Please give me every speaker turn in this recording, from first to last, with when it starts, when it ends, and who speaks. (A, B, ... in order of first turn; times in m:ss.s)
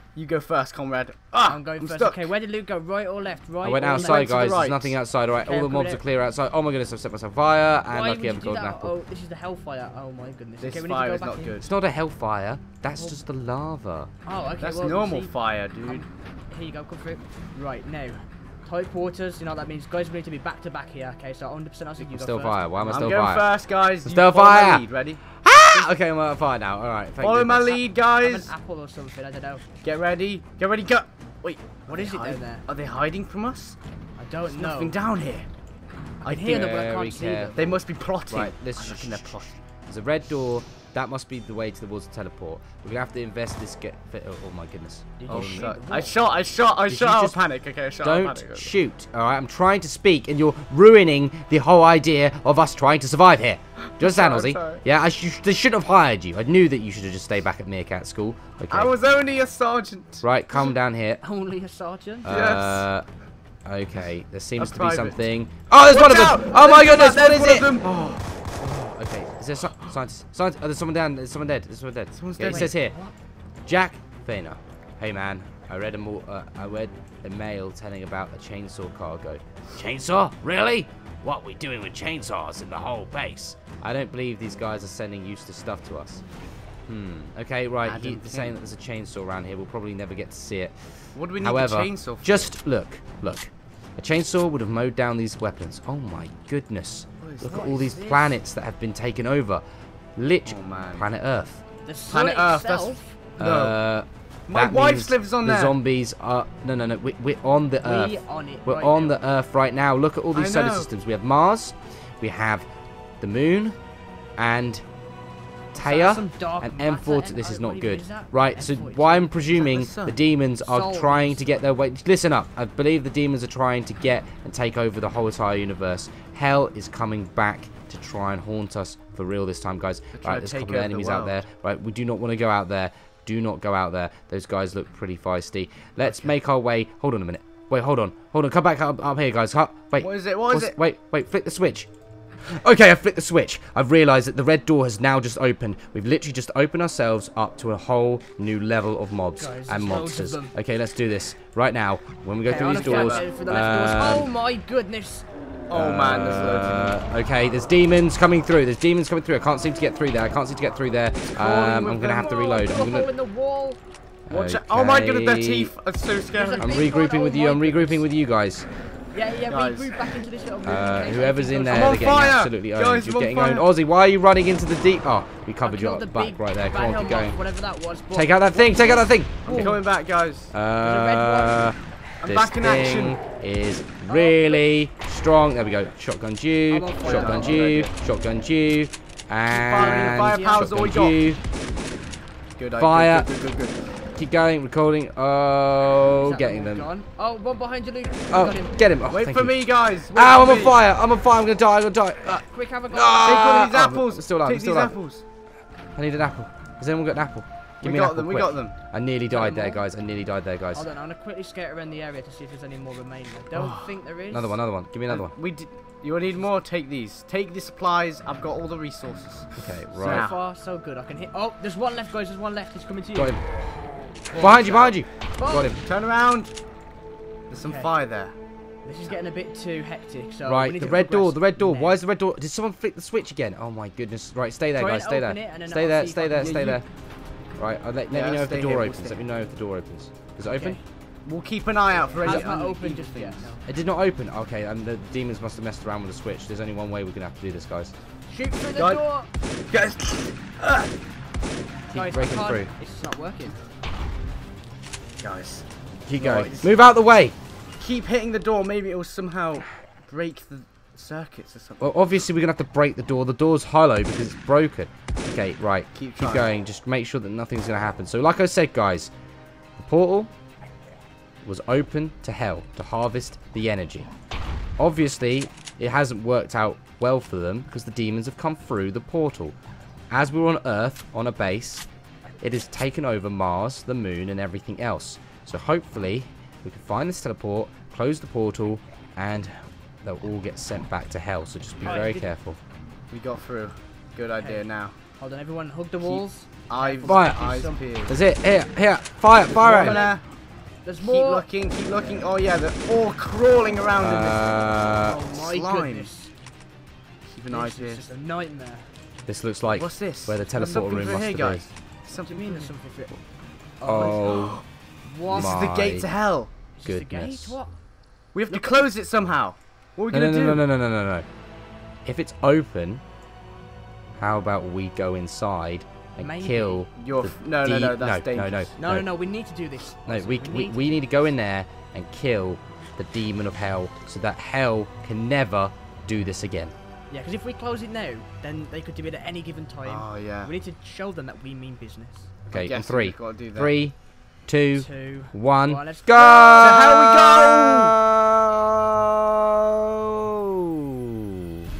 0:00.2-0:02.3 A
0:01.5-0:04.4 B
0:03.6-0:08.9 C
0:03.8-0:05.0 A
0:05.4-0:06.0 B
0:07.9-0:11.6 B
0:10.6-0:11.7 A
0:11.6-0:14.1 C
0:14.3-0:22.8 B
0:14.6-0:16.1 A
0:22.0-0:23.5 C
0:22.8-0:25.2 A
0:24.0-0:27.8 C
0:27.2-0:28.5 A
0:28.0-0:29.7 B
0:29.8-0:33.8 A
0:31.9-0:32.7 B
0:34.2-0:35.0 B
0:34.5-0:35.5 A
0:36.2-0:37.8 B
0:36.2-0:36.6 A
0:36.4-0:37.6 C
0:37.6-0:39.6 A
0:38.3-0:45.7 C
0:45.2-0:46.1 B
0:45.3-0:48.7 A
0:46.9-0:47.4 C
0:48.0-0:58.9 C
0:54.0-0:54.8 A
0:58.7-1:00.3 A
1:00.2-1:01.2 C
1:01.2-1:02.3 B
1:02.2-1:02.9 A
1:02.2-1:03.1 C
1:03.7-1:07.8 C
1:04.6-1:05.2 A
1:05.9-1:08.3 A
1:08.6-1:13.0 C
1:12.2-1:12.7 A
1:12.4-1:13.1 B
1:13.7-1:26.2 C
1:26.9-1:39.6 C
1:27.8-1:28.6 A
1:31.2-1:32.5 A
1:37.2-1:37.6 A
1:37.5-1:38.4 B
1:40.2-1:41.6 C
1:40.5-1:41.1 A
1:41.8-1:43.1 B
1:42.1-1:43.8 A
1:43.4-1:52.7 C
1:44.5-1:45.8 A
1:47.8-1:49.3 B
1:50.3-1:50.9 A
1:53.2-1:53.8 C
1:54.4-1:54.8 C
1:55.7-2:21.9 C
1:55.8-1:59.6 B
1:59.5-2:00.2 A
2:00.6-2:01.7 B
2:10.2-2:11.4 A
2:16.0-2:16.3 A
2:20.0-2:20.8 A
2:22.4-2:34.3 C
2:29.4-2:30.5 B
2:32.4-2:35.3 B
2:32.5-2:33.3 A
2:35.7-2:37.0 A
2:35.7-2:43.1 C
2:41.3-2:42.2 A
2:41.9-2:43.8 B
2:44.3-2:45.7 C
2:44.3-2:46.8 A
2:46.3-2:48.0 B
2:46.6-2:48.7 C
2:49.1-2:52.2 B
2:49.5-2:50.1 A
2:50.6-2:57.4 C
2:51.7-2:53.7 A
2:55.6-2:59.8 B
2:58.1-2:59.8 C
2:59.4-3:00.5 A
3:00.5-3:11.4 C
3:00.8-3:01.7 B
3:02.2-3:03.2 A
3:04.1-3:04.7 B
3:06.7-3:07.8 B
3:07.0-3:07.9 A
3:09.5-3:11.2 A
3:09.7-3:10.7 B
3:12.6-3:14.0 A
3:12.8-3:13.3 C
3:14.2-3:16.9 C
3:16.1-3:18.8 B
3:18.3-3:25.0 C
3:19.1-3:20.8 A
3:22.2-3:23.6 B
3:23.2-3:25.2 A
3:26.0-3:30.9 C
3:27.8-3:28.8 A
3:29.2-3:29.8 B
3:30.7-3:34.6 B
3:33.5-3:33.9 A
3:34.3-3:35.4 C
3:35.1-3:40.4 A
3:39.6-3:40.3 C
3:40.0-3:43.4 B
3:43.2-3:43.4 C
3:44.3-3:45.8 B
3:44.3-3:45.8 C
3:44.4-3:44.9 A
3:45.8-3:46.5 A
3:47.5-3:48.3 A
3:47.6-3:47.9 B
3:48.8-3:52.0 B
3:50.4-3:56.9 C
3:54.8-3:56.8 B
3:56.3-3:56.8 A
3:57.6-4:00.8 C
3:58.1-3:59.2 A
4:00.5-4:00.8 B
4:01.2-4:03.6 A
4:02.1-4:03.6 B
4:03.7-4:07.9 C
4:08.3-4:09.3 B
4:08.8-4:09.0 A
4:09.7-4:10.9 A
4:11.9-4:12.7 C
4:11.9-4:13.6 B
4:15.2-4:16.7 A
4:16.1-4:17.4 C
4:17.8-4:22.2 A
4:21.8-4:29.1 C
4:25.9-4:26.5 A
4:29.8-4:30.3 C
4:31.4-4:34.1 C
4:34.8-4:39.6 C
4:40.1-4:41.9 C
4:42.4-4:52.6 C
4:51.8-4:52.4 B
4:53.1-4:55.0 A
4:54.4-4:54.6 B
4:55.2-4:57.8 B
4:56.0-4:58.2 A
4:57.1-4:57.4 C
4:58.1-5:00.1 C
4:59.5-5:00.2 A
4:59.6-5:00.2 B
5:00.8-5:01.5 B
5:01.0-5:04.5 A
5:04.0-5:05.2 C
5:04.9-5:06.3 B
5:05.2-5:06.1 A
5:07.3-5:08.0 A
5:07.5-5:08.9 B
5:09.3-5:11.7 C
5:09.7-5:12.7 A
5:12.1-5:13.1 B
5:13.8-5:15.7 B
5:13.8-5:14.6 C
5:14.0-5:14.6 A
5:15.3-5:16.1 C
5:15.3-5:16.5 A
5:16.8-5:17.7 B
5:16.8-5:17.6 C
5:18.3-5:20.6 A
5:18.5-5:18.8 B
5:20.1-5:21.3 C
5:22.0-5:23.0 C
5:24.2-5:29.1 C
5:26.2-5:26.8 B
5:27.0-5:28.7 A
5:28.8-5:30.9 B
5:30.0-5:36.7 C
5:37.1-5:42.3 B
5:39.8-5:40.5 A
5:42.5-5:44.0 C
5:42.5-5:43.8 A
5:44.5-5:51.3 C
5:44.8-5:46.9 B
5:46.6-5:48.0 A